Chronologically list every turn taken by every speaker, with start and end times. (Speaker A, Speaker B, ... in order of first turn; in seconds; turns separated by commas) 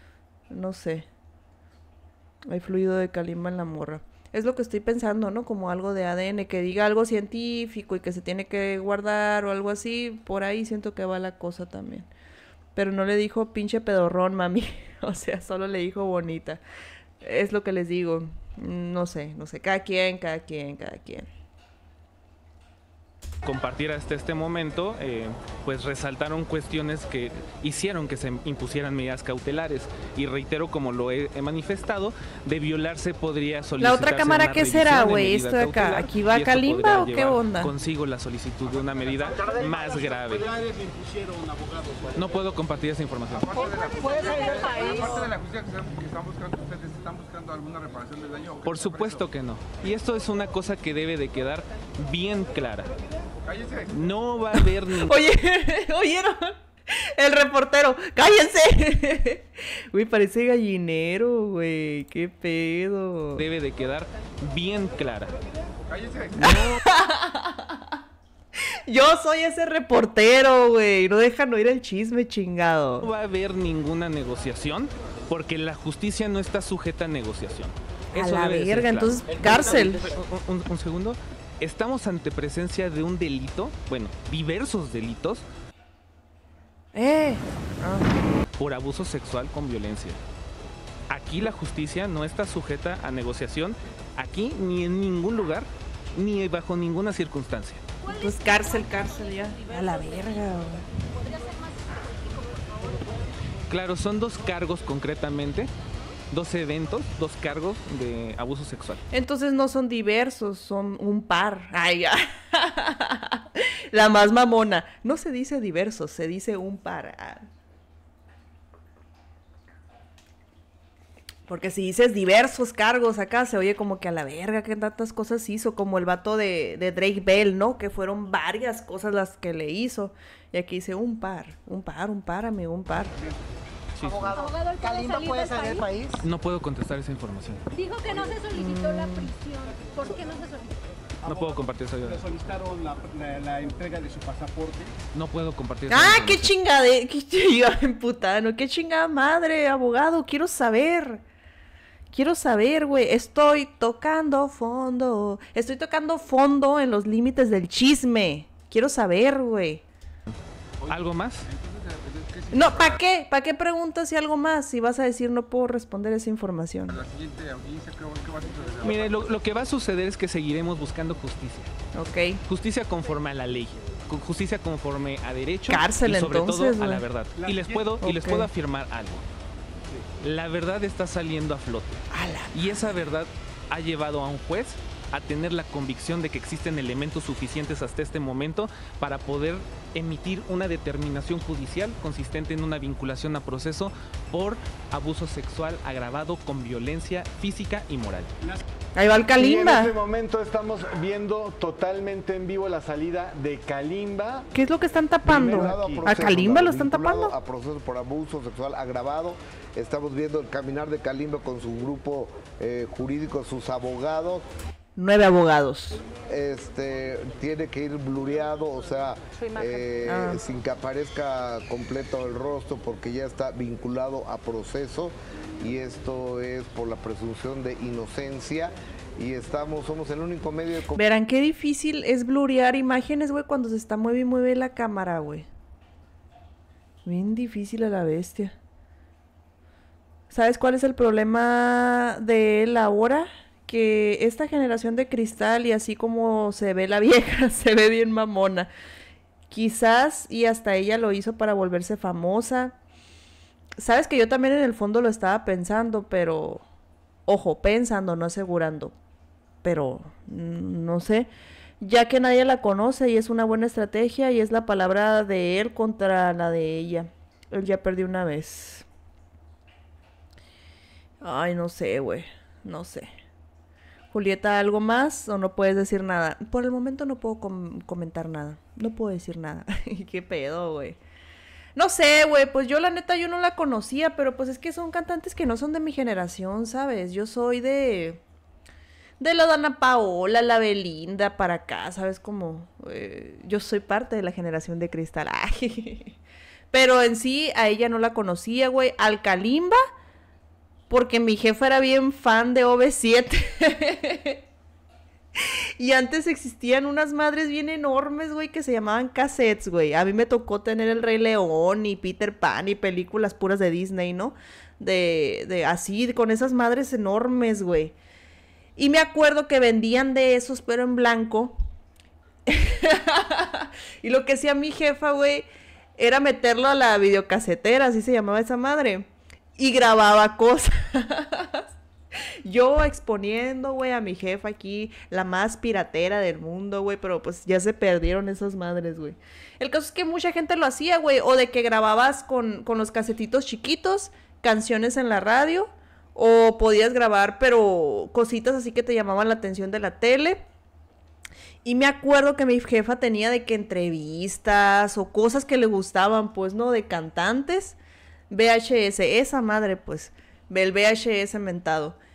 Speaker A: 0.5-1.1, Speaker A: 2.5-12.1, Speaker A: 12.7-16.6, Speaker A: 17.2-21.3, Speaker B: 23.4-40.5, Speaker A: 33.8-37.7, Speaker C: 38.7-42.4, Speaker B: 42.1-43.6, Speaker C: 43.3-49.2, Speaker D: 44.5-45.0, Speaker B: 48.6-52.9, Speaker C: 53.4-53.9, Speaker B: 53.9-55.1, Speaker A: 54.6-63.4, Speaker B: 63.4-65.3, Speaker C: 65.9-66.6, Speaker A: 66.4-67.8, Speaker B: 66.4-66.7, Speaker A: 68.9-73.1, Speaker B: 73.0-85.4, Speaker A: 78.1-80.0, Speaker A: 86.9-88.2, Speaker B: 88.6-90.2, Speaker B: 91.1-97.8, Speaker A: 98.1-100.8, Speaker B: 103.7-105.7, Speaker B: 106.3-109.0, Speaker A: 109.1-117.5, Speaker A: 121.5-133.1, Speaker B: 134.0-134.3, Speaker D: 134.3-135.9, Speaker B: 136.2-137.6, Speaker D: 137.7-140.8, Speaker A: 138.5-139.3, Speaker C: 141.2-144.9, Speaker B: 141.2-142.2, Speaker B: 145.1-146.5, Speaker A: 145.9-151.2, Speaker A: 152.1-159.8, Speaker C: 160.8-163.0, Speaker B: 160.9-161.4, Speaker A: 162.5-167.0, Speaker C: 166.9-169.2, Speaker B: 168.8-171.7, Speaker A: 171.9-172.4, Speaker B: 172.5-179.2, Speaker A: 175.7-177.0, Speaker C: 177.4-177.9, Speaker A: 178.0-178.5, Speaker B: 180.2-182.0, Speaker A: 182.1-182.8, Speaker B: 182.5-198.3, Speaker A: 198.9-199.9, Speaker E: 199.3-204.5, Speaker A: 204.5-207.3, Speaker E: 205.2-206.3, Speaker F: 205.3-214.4, Speaker A: 215.0-216.0, Speaker F: 216.3-231.0, Speaker A: 220.0-220.4, Speaker A: 230.9-235.5, Speaker A: 237.0-238.5, Speaker A: 240.3-248.7, Speaker A: 249.5-252.7, Speaker A: 253.8-256.6, Speaker A: 257.3-258.9, Speaker A: 259.6-261.3, Speaker A: 261.8-268.8, Speaker A: 271.2-273.1, Speaker A: 274.1-281.0, Speaker A: 281.8-288.2, Speaker A: 289.2-296.1, Speaker A: 296.7-299.8, Speaker A: 300.9-304.4, Speaker A: 305.4-317.9, Speaker A: 318.8-321.6, Speaker A: 322.5-325.4, Speaker A: 326.0-331.6, Speaker A: 332.4-350.4, Speaker A: 351.6-357.8, Speaker A: 358.3-362.0